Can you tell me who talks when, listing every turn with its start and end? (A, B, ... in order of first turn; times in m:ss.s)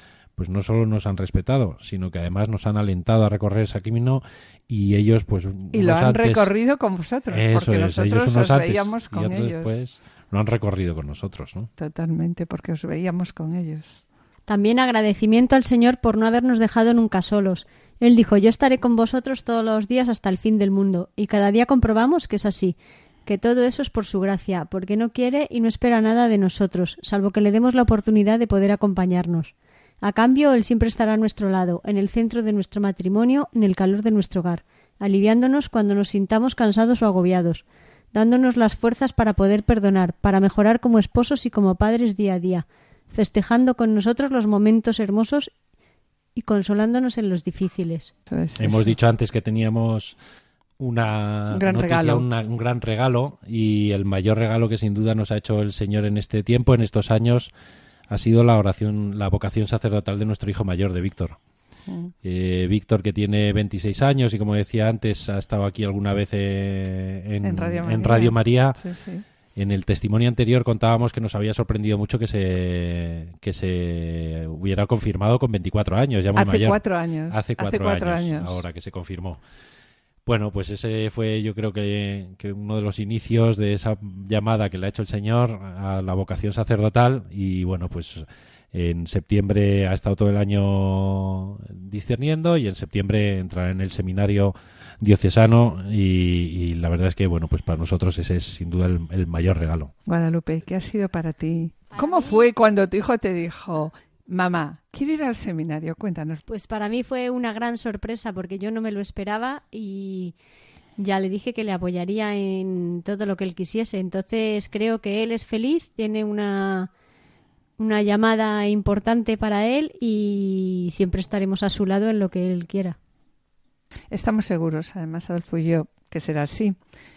0:00.4-0:06.5 A
0:05.7-0:09.8 B
0:07.3-0:11.7 A
0:11.8-0:14.0 B
0:14.5-0:45.5 C
0:46.4-0:48.1 C
0:48.3-0:49.0 B
0:48.6-0:50.2 A
0:50.8-0:57.5 A
0:51.5-0:52.2 B
0:58.1-1:01.4 A
1:01.9-1:02.1 B
1:02.2-1:08.8 A
1:07.4-1:09.2 B
1:09.6-1:19.4 A
1:16.4-1:18.6 B
1:20.3-1:39.9 A
1:40.1-1:46.4 B
1:42.0-1:42.4 C
1:46.5-1:50.4 C
1:51.0-1:56.9 C
1:57.8-2:03.0 C
2:04.1-2:06.8 B